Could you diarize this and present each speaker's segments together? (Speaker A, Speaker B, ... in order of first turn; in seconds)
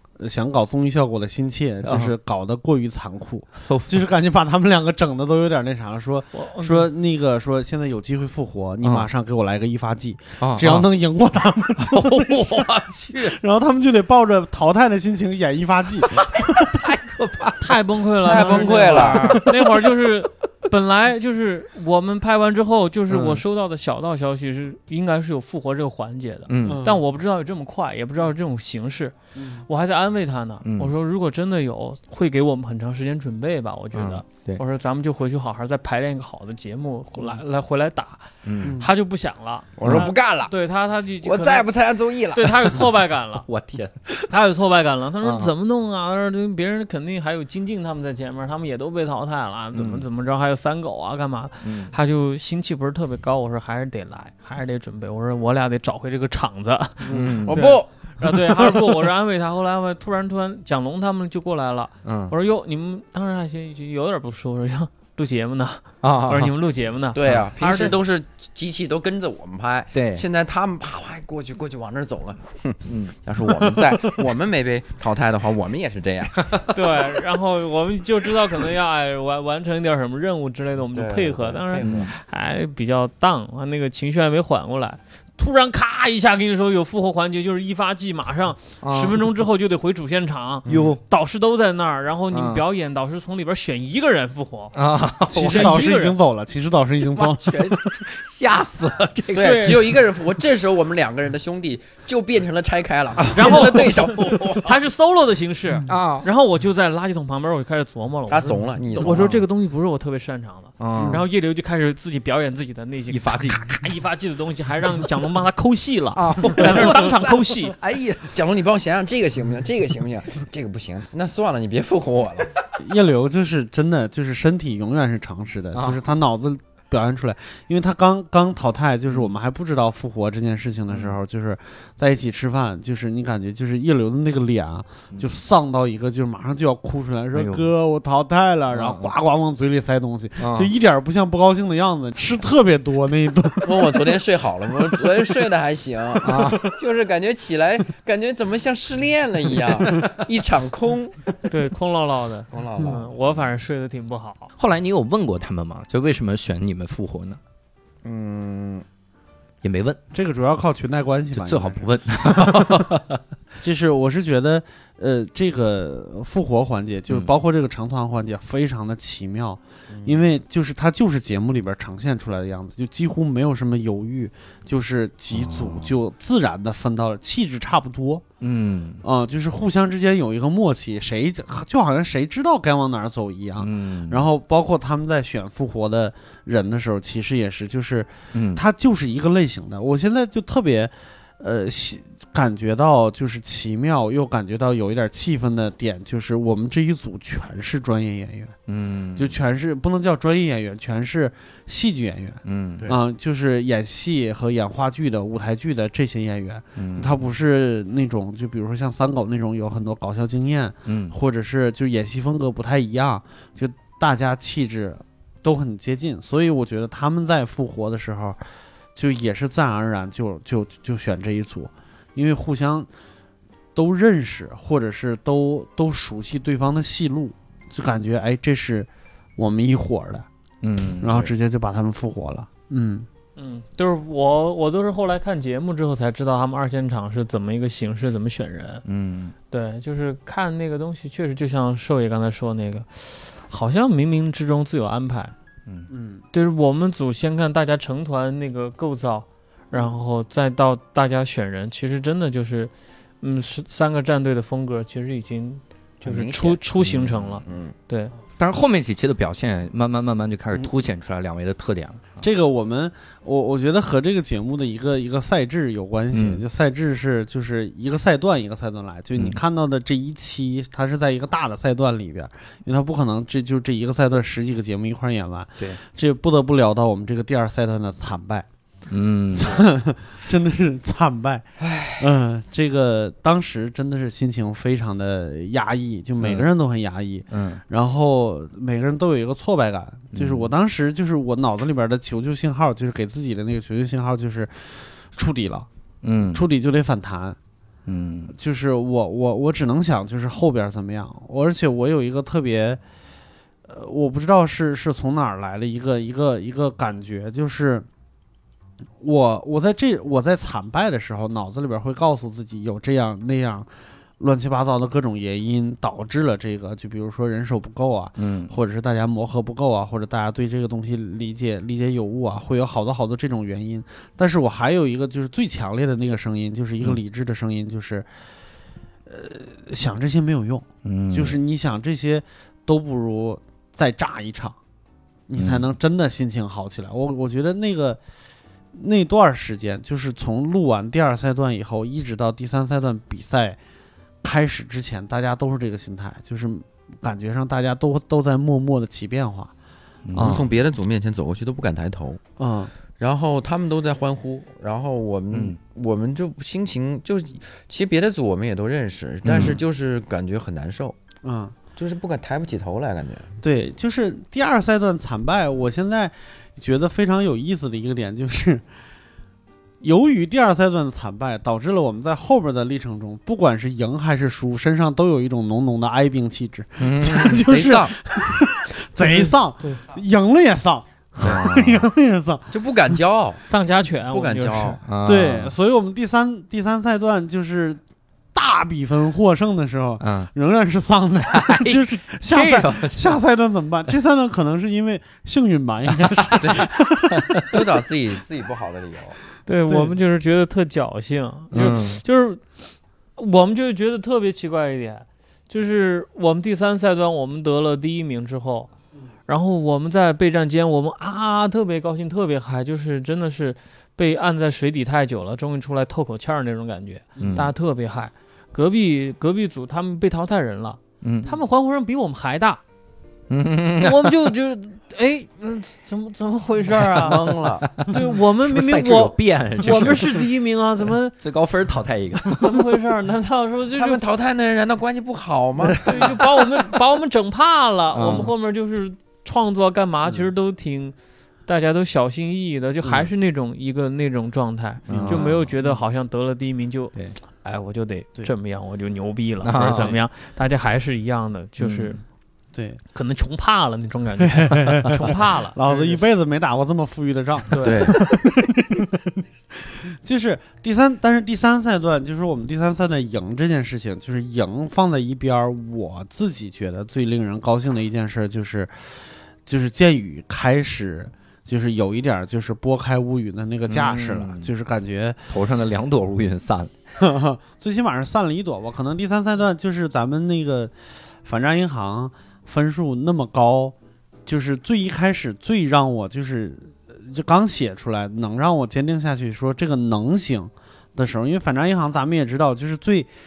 Speaker A: 0.2-16.6, 26.6-27.0, 29.4-29.6, 38.6-38.9, 95.3-97.5, 111.0-111.2, 122.8-144.1, 160.1-162.8, 163.6-178.2, 179.0-198.5, 199.2-218.4, 218.9-222.9, 223.7-230.2, 231.0-233.1, 245.9-246.2, 262.2-278.4, 279.3-295.7, 296.3-297.4, 298.3-302.8, 303.7-307.9, 309.0-313.7, 314.2-328.1, 329.1-334.6, 335.3-338.0, 338.7-343.6, 344.2-349.5, 350.1-350.5, 352.4-352.7, 361.2-361.5, 363.4-368.6, 369.8-382.6, 385.0-387.8, 388.3-397.4, 399.7-400.0, 444.9-445.8, 449.7-450.0, 452.5-452.8, 454.2-475.2, 477.0-480.7, 481.2-483.7, 484.2-493.1
Speaker B: 1.8-2.1, 3.7-4.0, 8.8-9.1, 10.4-10.9, 11.8-13.4, 16.1-17.8, 18.3-19.1, 23.1-23.4, 26.5-26.8, 30.6-30.9, 33.9-34.6, 38.4-38.8, 39.8-40.1, 43.4-44.3, 45.2-45.5, 49.7-50.0, 51.6-51.9, 57.1-57.7, 62.0-62.3, 66.0-66.5, 69.9-70.2, 72.8-74.2, 76.4-76.7, 81.8-82.1, 88.8-89.2, 90.7-91.0, 92.3-92.6, 94.7-95.8, 97.4-99.9, 103.2-103.8, 105.8-106.3, 109.1-109.3, 110.8-111.2, 113.1-113.7, 116.1-118.3, 130.9-131.2, 137.3-137.7, 138.7-139.1, 140.4-140.7, 146.2-146.7, 154.6-157.4, 159.6-160.0, 161.3-163.2, 175.3-175.9, 178.4-179.0, 183.6-184.2, 188.3-188.6, 198.7-199.3, 202.4-202.9, 206.8-207.1, 210.8-211.1, 230.6-231.3, 238.8-239.3, 256.8-257.4, 258.4-262.2, 266.1-266.4, 278.9-279.6, 286.2-286.5, 287.3-287.6, 290.1-290.5, 296.0-296.4, 297.9-298.3, 318.2-318.5, 330.8-331.4, 335.4-335.7, 350.1-350.4, 355.3-355.6, 359.2-359.6, 376.8-377.4, 381.2-381.9, 384.8-385.5, 390.0-390.3, 391.3-393.2, 397.1-397.4, 401.5-402.0, 417.2-417.5, 421.0-421.3, 423.3-424.3, 427.7-430.2, 431.2-432.6, 437.9-438.3, 444.9-445.5, 449.4-449.9, 451.6-452.0, 473.7-474.5, 475.3-476.7
Speaker C: 6.3-6.9, 17.6-29.1, 29.6-41.7, 42.3-43.5, 44.3-68.0, 76.7-94.7, 95.3-96.2, 99.3-99.8, 103.3-117.8, 151.5-154.5, 233.4-238.8, 239.5-245.3, 246.3-258.1, 379.0-379.8, 383.4-384.8, 399.5-402.5, 403.2-408.7, 409.3-422.6, 423.8-427.3, 427.9-431.1, 432.3-434.0, 435.8-440.9, 441.4-452.0, 452.9-456.0, 457.5-457.9
Speaker D: 18.2-19.4, 39.8-40.5, 41.2-42.8, 57.0-59.0, 67.1-76.5, 80.9-82.1, 97.2-97.9, 99.3-104.8, 108.3-109.4, 118.2-122.5, 143.6-151.2, 152.5-153.1, 158.0-158.8, 169.9-170.3, 256.0-256.6, 257.4-257.7, 350.1-352.2, 353.0-361.0, 361.8-363.3, 377.2-377.9, 382.5-383.4, 384.1-384.8, 396.4-396.7, 397.4-399.2, 426.9-427.7, 433.7-436.1, 457.6-458.0